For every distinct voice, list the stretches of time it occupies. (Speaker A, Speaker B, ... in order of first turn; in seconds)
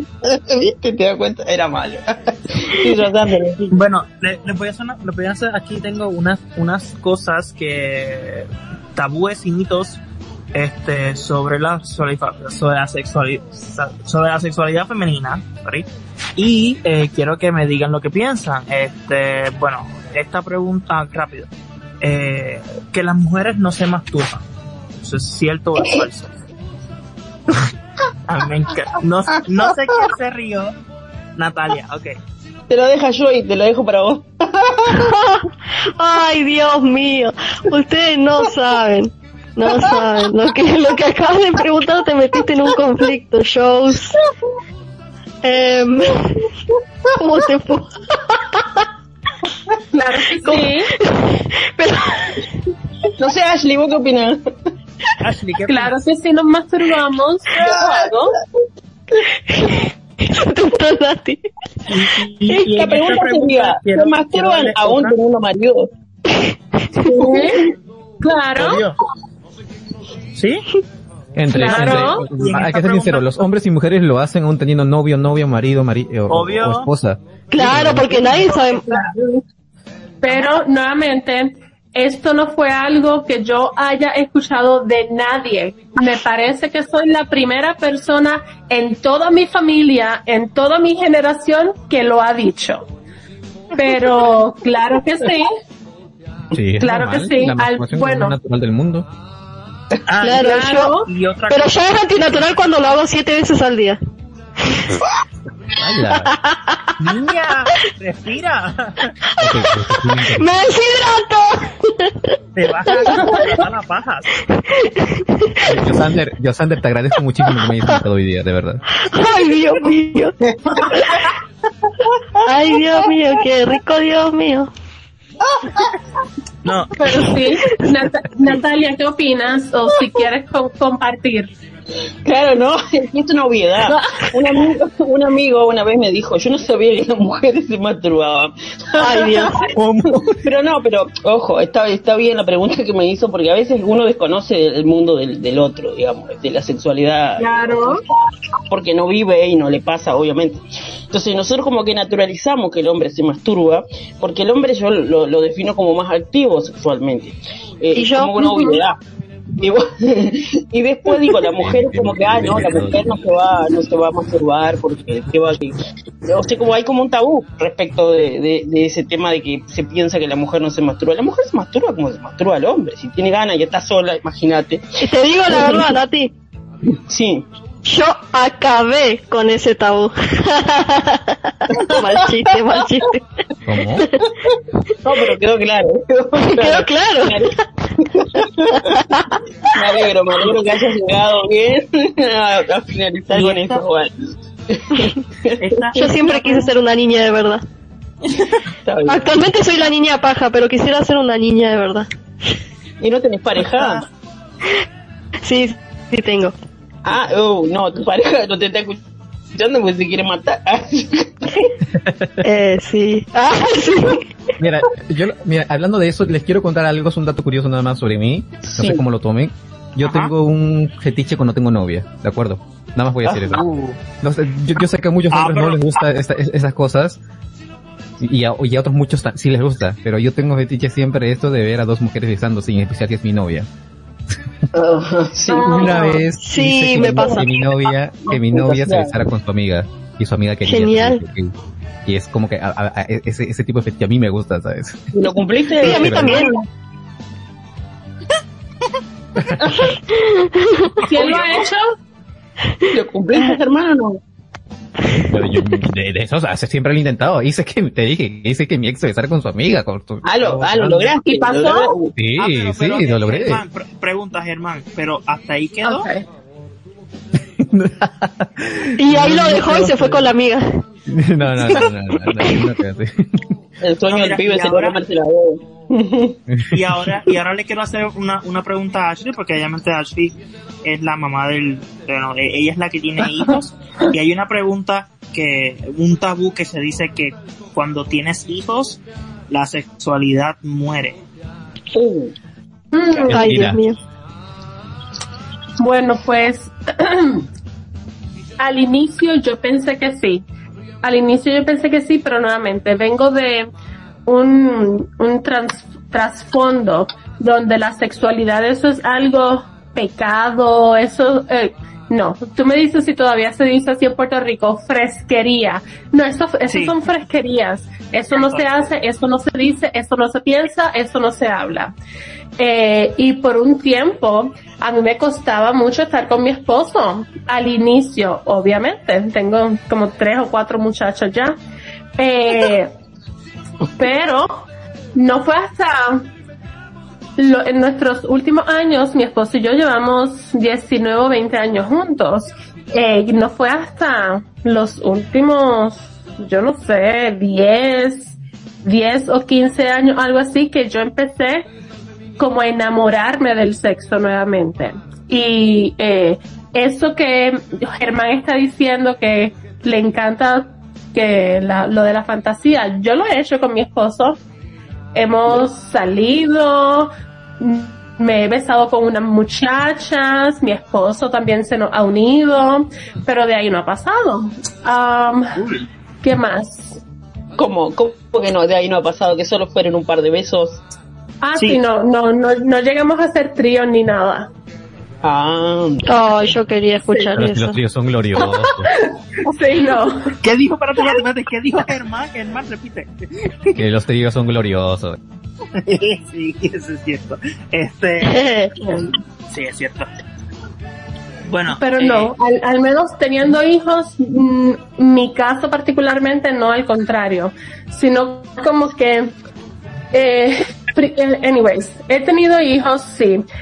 Speaker A: 0.2-3.7, 32.7-35.1, 53.2-54.4, 57.6-58.3, 62.5-65.9, 132.2-139.5, 140.2-148.0, 148.7-159.0, 159.6-174.8, 175.5-175.9, 176.9-177.4, 181.7-182.8, 185.0-194.1, 194.7-195.8, 198.8-199.3, 203.0-204.1, 207.0-209.0, 209.5-211.7, 218.6-219.0, 234.7-236.2, 236.9-237.7, 238.2-239.2, 245.1-246.6, 251.2-251.5, 252.9-254.2, 260.2-262.1, 273.8-276.4, 291.9-292.3, 377.6-380.8, 385.2-386.1
Speaker B: 3.7-10.0, 10.5-21.5, 22.0-24.4, 25.0-26.3, 28.3-30.7, 31.4-32.1, 55.2-56.0, 57.5-58.1, 61.9-65.2, 68.5-69.0, 70.3-70.6, 71.5-73.2, 76.3-76.9, 77.6-79.1, 80.3-80.6, 100.1-101.8, 107.0-109.2, 112.5-114.4, 126.6-127.2, 193.3-193.8, 195.6-196.7, 198.3-198.6, 203.6-204.0, 220.0-220.3, 223.2-224.0, 225.3-225.9, 251.3-251.6, 262.4-266.1, 274.1-275.0, 276.7-291.2, 316.7-317.0, 318.3-318.8, 375.6-375.9, 390.4-393.8, 395.8-398.4, 399.5-400.1, 401.5-402.3
Speaker C: 34.9-44.2, 45.4-46.5, 47.1-48.9, 50.4-52.5, 59.5-61.4, 66.3-67.1, 77.5-79.1, 100.2-101.0, 101.5-104.0, 104.6-105.0, 106.1-106.9, 109.5-109.7, 110.2-112.3, 112.9-113.5, 114.5-115.9, 119.0-120.3, 122.4-124.7, 139.0-139.6, 157.9-158.3, 175.0-176.3, 177.8-183.2, 186.4-187.6, 188.7-189.4, 195.9-197.6, 199.0-202.1, 205.4-206.5, 212.4-214.3, 236.4-237.5, 240.6-241.2, 245.8-246.5, 250.1-251.0, 269.0-270.8, 293.3-294.0, 386.0-387.8, 398.2-398.7
Speaker D: 49.9-50.9, 55.7-58.1, 67.0-67.7, 68.2-68.8, 71.5-72.3, 80.2-92.8, 93.7-95.5, 96.8-98.3, 100.3-101.1, 127.0-131.5, 133.9-134.3, 147.4-148.0, 158.4-158.8, 235.5-236.2, 251.0-251.8, 261.2-261.9, 265.8-266.2, 292.9-293.4, 295.8-297.4, 298.6-300.4, 301.0-303.7, 304.2-321.9, 322.6-331.6, 332.2-332.9, 334.0-336.3, 337.4-351.7, 352.4-364.4, 365.1-375.6, 376.2-377.0, 381.4-384.5, 387.0-387.3, 388.4-390.3, 398.8-399.1, 401.7-409.3, 410.1-413.4
Speaker E: 71.3-78.1, 96.5-99.1, 105.8-106.3, 109.4-110.5, 115.6-118.8, 139.7-140.4, 161.6-163.2, 183.7-184.1, 211.9-212.4, 214.6-223.6, 224.2-227.2, 228.2-233.7, 235.6-241.5, 242.0-245.1, 245.8-246.5, 249.4-249.9, 255.1-261.1, 262.1-263.6, 267.6-270.3, 271.1-273.5, 276.5-276.8, 293.3-293.8, 387.3-388.9, 393.7-395.2